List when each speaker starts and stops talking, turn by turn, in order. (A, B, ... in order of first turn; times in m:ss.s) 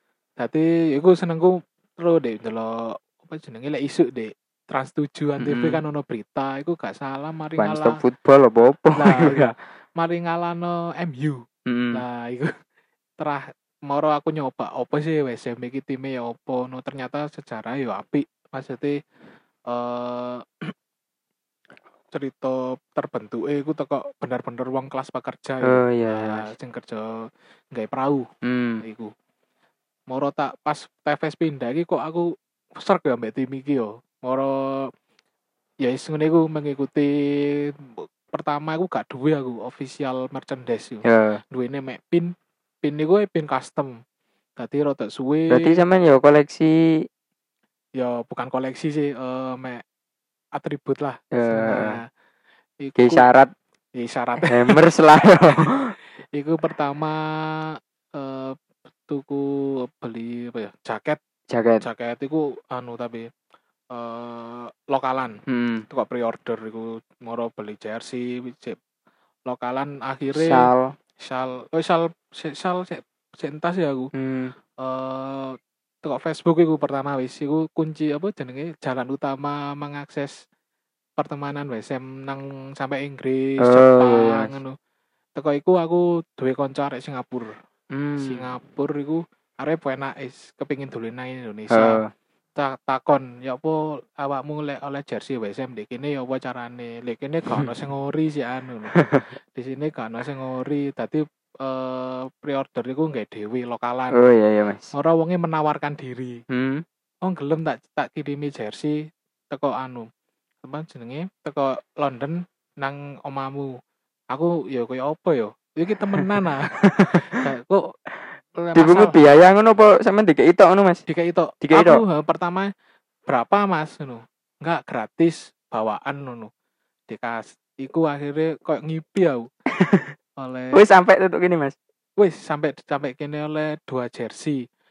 0:00.4-0:08.0 A
0:05.4-0:05.8 B
0:07.6-0:09.5 B
0:09.0-0:11.4 A
0:11.7-0:12.0 B
0:11.9-0:12.5 A
0:13.2-0:19.0 A
0:19.7-0:20.7 A
0:22.1-0:28.3 A
0:25.6-0:26.5 B
0:28.4-0:28.8 B
0:28.8-0:29.1 A
0:30.1-0:34.9 A
0:35.8-0:44.0 A
0:41.1-0:41.4 B
0:44.6-0:45.8 A
0:45.5-0:47.1 B
0:48.0-0:49.8 A
0:50.6-0:52.0 A
0:51.3-0:52.0 B
0:52.8-0:53.3 A
0:53.0-0:53.5 B
0:54.0-0:54.8 A
0:54.4-0:56.0 B
0:56.3-1:01.2 A
1:01.5-1:01.8 B
1:01.8-1:03.3 A
1:03.9-1:08.8 A
1:05.5-1:05.8 B
1:09.5-1:10.7 A
1:10.3-1:11.0 B
1:11.2-1:14.1 A
1:14.1-1:14.5 B
1:14.8-1:20.4 A
1:21.2-1:24.8 A
1:23.6-1:24.6 B
1:25.4-1:27.5 A
1:27.9-1:28.5 B
1:28.2-1:32.0 A
1:31.7-1:32.1 B
1:32.6-1:44.2 A
1:39.0-1:39.3 B
1:44.1-1:44.9 B
1:44.9-1:46.4 A
1:46.5-1:46.8 B
1:47.2-1:50.1 A
1:50.6-1:53.8 A
1:54.3-1:57.9 A
1:57.0-1:57.4 B
1:58.6-1:59.2 A
1:58.8-2:01.0 B
2:01.1-2:02.7 A
2:01.6-2:02.0 B
2:03.3-2:06.5 A
2:07.1-2:09.5 A
2:09.8-2:10.1 B
2:10.4-2:10.8 A
2:10.7-2:11.8 B
2:12.2-2:14.6 A